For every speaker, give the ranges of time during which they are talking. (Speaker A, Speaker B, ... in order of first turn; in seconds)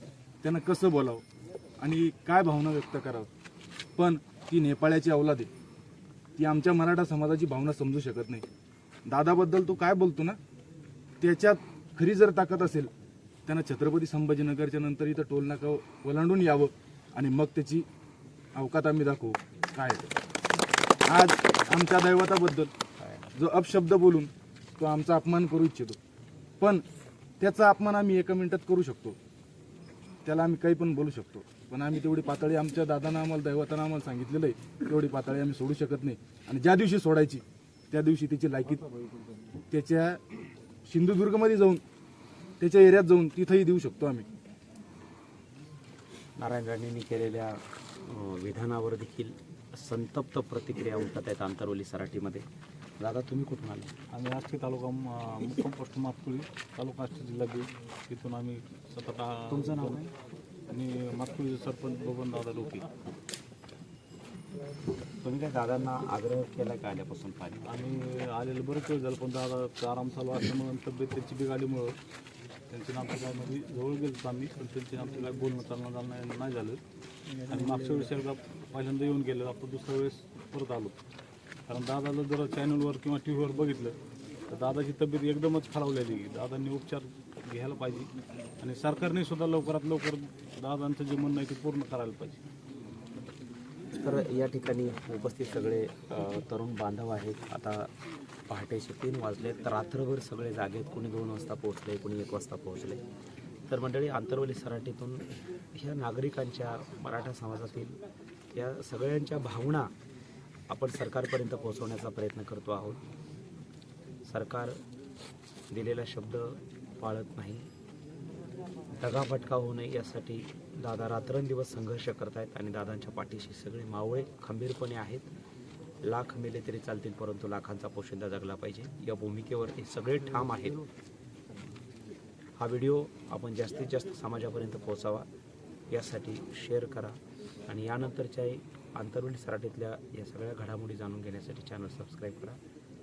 Speaker A: 0.4-1.2, 1.8-3.3, 4.0-5.5, 6.4-8.4, 9.1-10.4, 11.2-12.9, 13.5-17.9, 18.5-20.1, 21.1-22.7, 23.3-26.0, 27.4-29.2, 30.2-38.8, 39.7-40.2, 40.9-41.8, 42.6-44.2
Speaker B: 23.0-23.3, 46.4-52.5, 53.0-53.9, 59.5-60.1, 65.2-67.8, 94.0-97.9, 98.5-103.0, 103.7-108.0, 108.5-109.9, 110.7-113.0, 114.2-114.8, 115.7-117.7, 119.0-125.3, 126.0-130.8, 132.6-135.3, 135.9-142.6
Speaker C: 54.1-60.0, 60.7-62.9, 67.6-72.0, 72.7-76.8, 77.4-80.9, 81.7-84.0, 84.5-88.1, 88.6-92.4